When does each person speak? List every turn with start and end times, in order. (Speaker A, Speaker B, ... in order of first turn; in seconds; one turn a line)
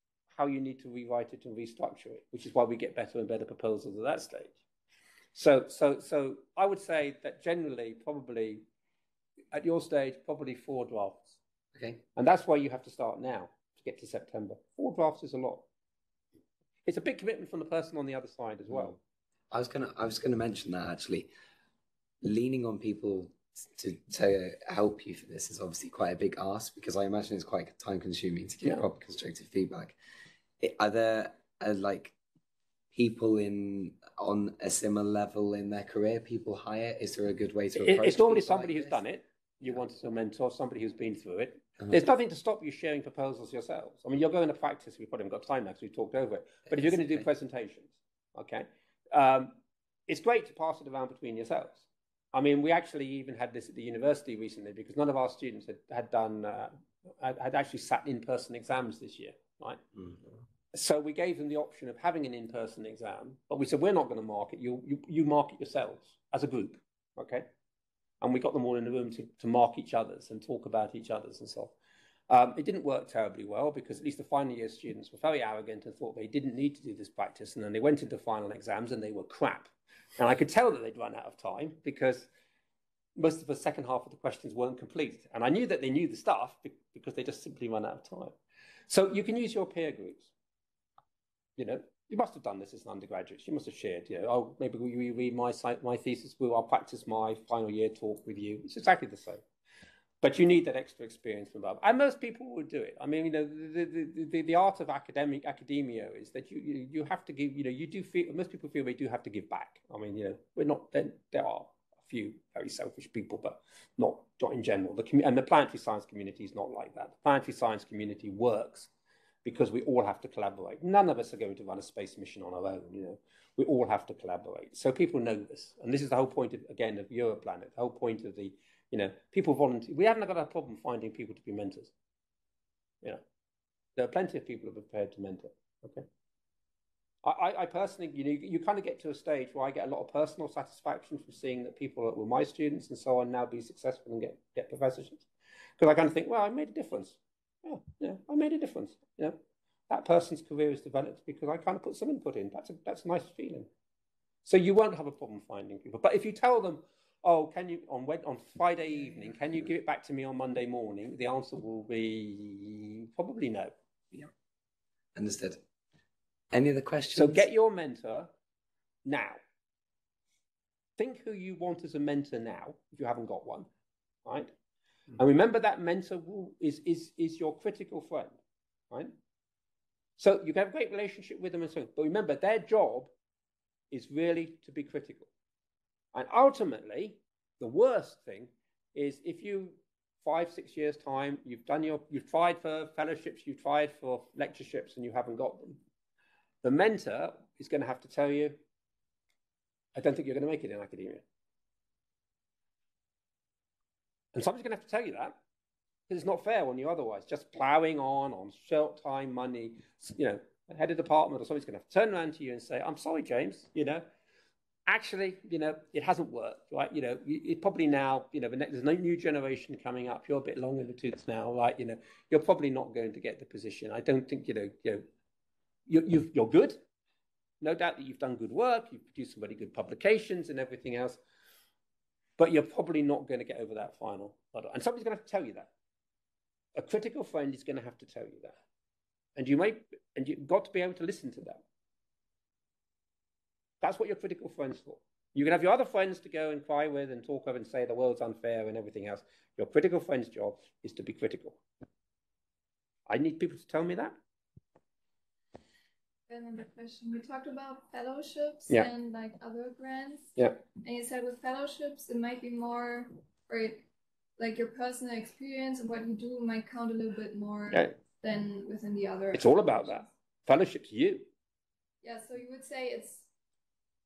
Speaker A: 0.3-4.6
Speaker A: 5.3-8.6
Speaker A: 9.5-11.4
Speaker B: 11.7-12.0
Speaker A: 12.2-15.7
Speaker A: 16.9-19.0
Speaker B: 18.7-19.0
Speaker B: 19.5-21.3
Speaker B: 22.2-30.0
Speaker B: 30.6-32.1
Speaker B: 32.9-39.0
Speaker A: 37.7-59.8
Speaker B: 46.7-47.2
Speaker A: 60.7-67.5
Speaker A: 68.2-71.7
Speaker A: 72.3-82.3
Speaker A: 83.2-88.3
Speaker A: 88.9-90.3
Speaker A: 91.6-99.4
Speaker A: 100.2-118.9
Speaker A: 119.4-131.9
Speaker A: 134.0-136.1
Speaker A: 137.2-145.3
Speaker A: 145.8-153.7
Speaker A: 154.4-163.7
Speaker B: 165.1-165.6
Speaker B: 166.5-167.4
Speaker A: 167.1-168.3
Speaker A: 169.0-169.4
Speaker A: 171.0-173.7
Speaker A: 174.2-174.5
Speaker A: 175.2-178.4
Speaker A: 180.2-183.1
Speaker A: 183.9-185.3
Speaker A: 186.1-195.8
Speaker A: 196.6-198.6
Speaker A: 199.9-201.2
Speaker A: 204.3-205.3
Speaker A: 206.1-214.0
Speaker A: 214.9-225.0
Speaker A: 225.9-226.8
Speaker A: 227.6-231.2
Speaker A: 232.4-235.7
Speaker A: 236.8-238.6
Speaker A: 239.3-241.6
Speaker A: 243.8-251.6
Speaker A: 253.1-254.2
Speaker C: 256.3-263.9
Speaker C: 264.4-269.9
Speaker A: 269.3-271.3
Speaker C: 272.0-273.3